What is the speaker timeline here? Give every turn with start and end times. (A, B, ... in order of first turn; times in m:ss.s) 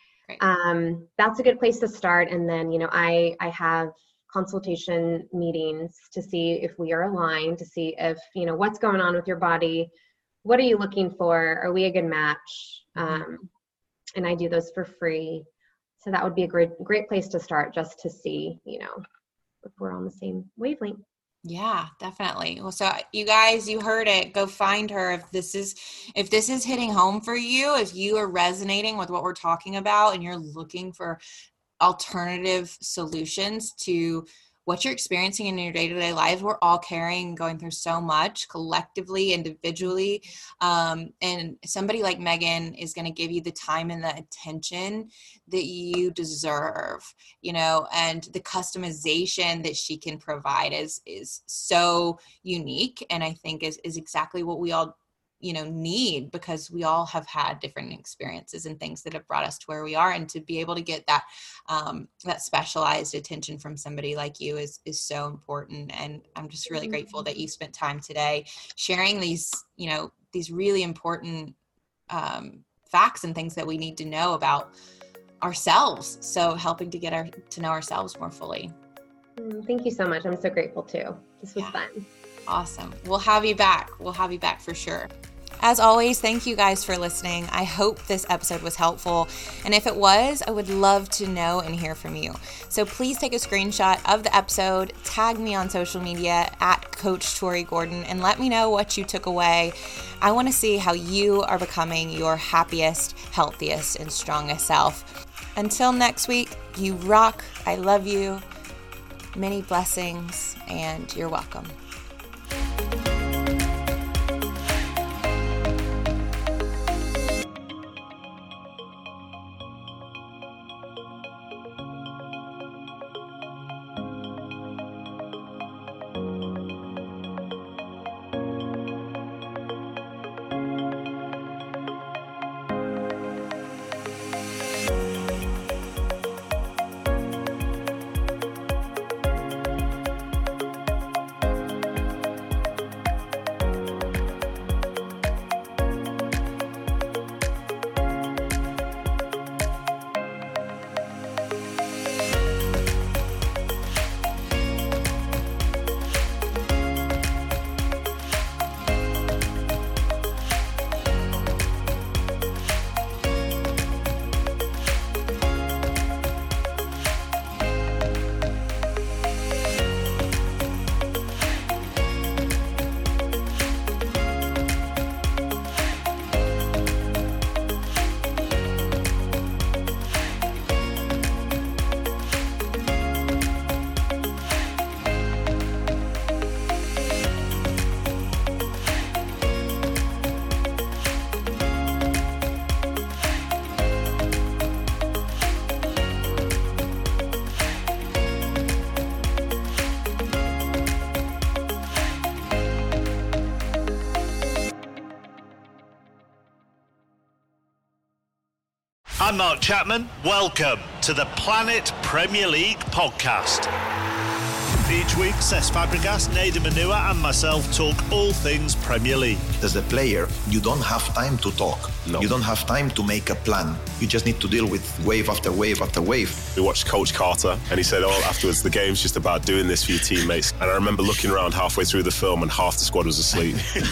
0:00.4-0:09.9 A
0:10.4-0:13.4 A
0:13.0-0:13.3 B
0:14.2-0:15.5 A
0:16.0-0:19.0 A
0:19.6-0:21.0 A
0:21.4-0:31.2 B
0:31.8-1:11.6 B
1:12.1-1:14.7 B
1:15.4-1:18.7 B
1:19.4-1:22.0 A
1:22.5-1:25.1 B
1:25.6-1:48.4 B
1:49.4-1:51.7 B
3:29.2-3:33.7 C
3:34.8-3:39.5 C
3:39.6-3:46.5 D
3:46.6-3:53.7 E